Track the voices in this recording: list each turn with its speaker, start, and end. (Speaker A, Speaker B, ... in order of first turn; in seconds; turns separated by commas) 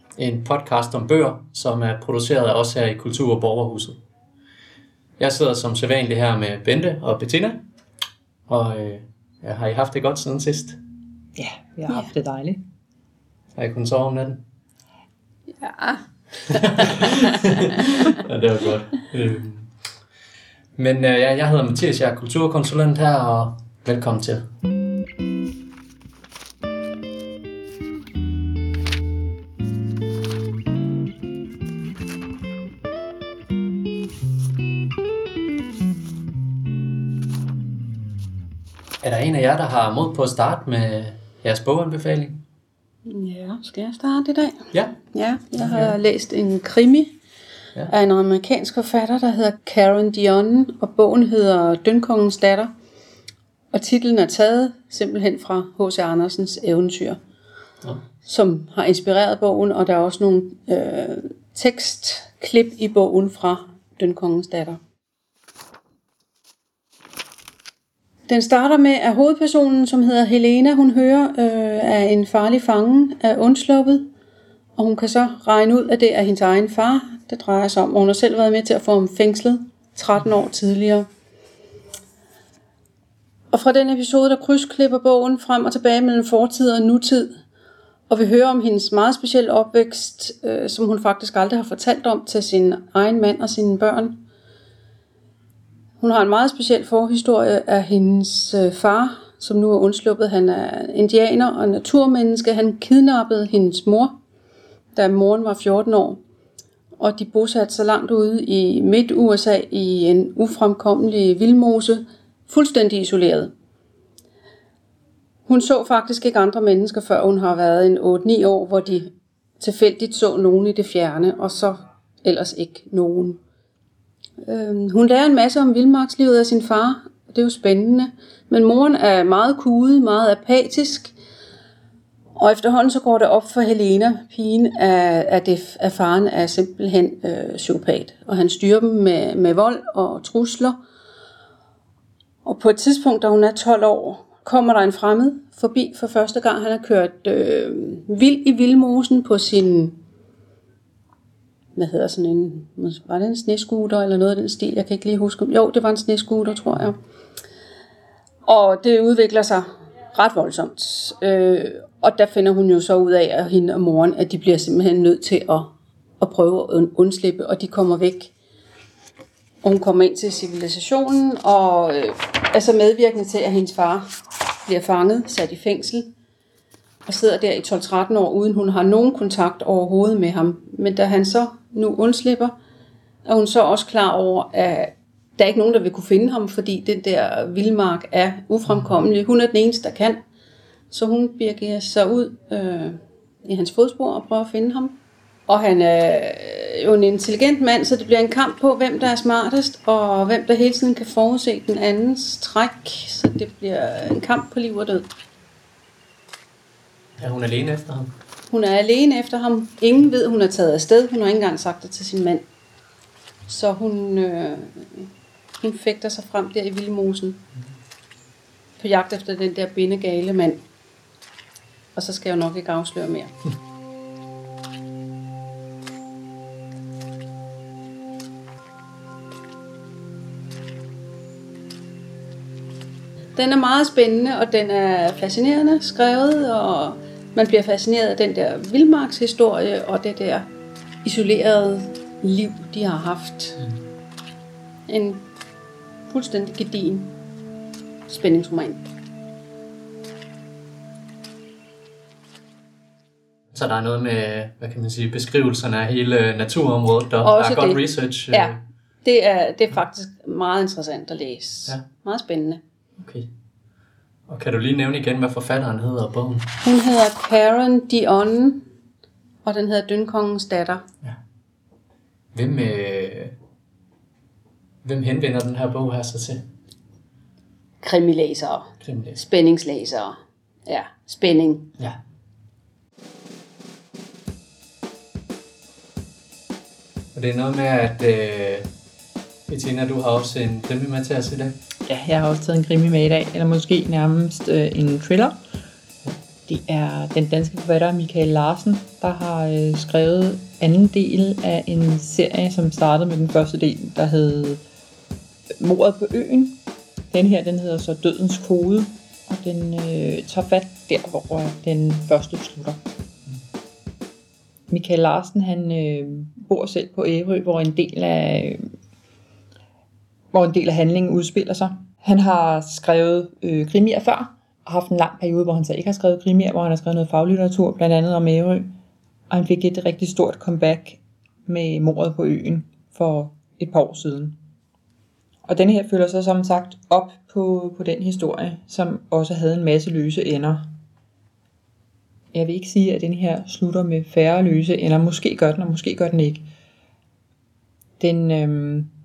Speaker A: 0.2-4.0, Speaker A: 5.2-7.6, Speaker A: 8.5-10.8, Speaker B: 11.4-12.6, Speaker A: 13.5-14.4, Speaker C: 15.5-18.1, Speaker A: 16.5-19.7, Speaker A: 20.8-24.4, Speaker A: 39.0-42.4, Speaker C: 43.0-47.1, Speaker A: 44.7-45.0, Speaker A: 45.6-45.9, Speaker C: 47.9-52.7, Speaker C: 53.7-57.2, Speaker C: 58.2-64.8, Speaker C: 68.3-74.1, Speaker C: 74.8-81.1, Speaker C: 83.5-87.3, Speaker C: 88.1-94.2, Speaker C: 96.0-104.2, Speaker C: 105.0-106.2, Speaker C: 107.0-113.5, Speaker C: 115.5-123.4, Speaker C: 124.5-131.1, Speaker C: 132.3-140.8, Speaker C: 142.4-150.0, Speaker C: 151.8-157.0, Speaker C: 158.4-168.3, Speaker C: 169.6-174.1, Speaker C: 174.7-176.1, Speaker C: 177.1-182.5, Speaker C: 183.2-190.2, Speaker C: 190.9-205.1, Speaker A: 207.2-208.1, Speaker C: 208.5-212.4, Speaker C: 213.5-215.1, Speaker C: 215.6-217.4, Speaker C: 218.8-220.6, Speaker C: 221.9-223.3, Speaker C: 233.3-240.5, Speaker C: 241.0-243.6, Speaker C: 244.9-245.3, Speaker C: 246.1-247.2, Speaker C: 248.1-248.8, Speaker A: 253.5-258.6, Speaker C: 257.2-262.6, Speaker A: 263.0-263.3, Speaker A: 264.3-266.5, Speaker C: 266.6-268.6, Speaker C: 269.4-270.8, Speaker A: 272.4-273.3, Speaker A: 274.8-276.5, Speaker C: 277.8-280.1, Speaker A: 278.8-279.2, Speaker C: 280.7-281.7, Speaker A: 287.1-288.7, Speaker A: 289.5-291.6, Speaker B: 291.9-295.3, Speaker B: 296.5-304.6, Speaker B: 305.6-306.6, Speaker B: 307.1-312.8, Speaker B: 314.7-318.7, Speaker B: 320.3-328.7, Speaker B: 329.3-334.4, Speaker B: 335.5-340.7, Speaker B: 342.3-346.4, Speaker B: 348.0-348.9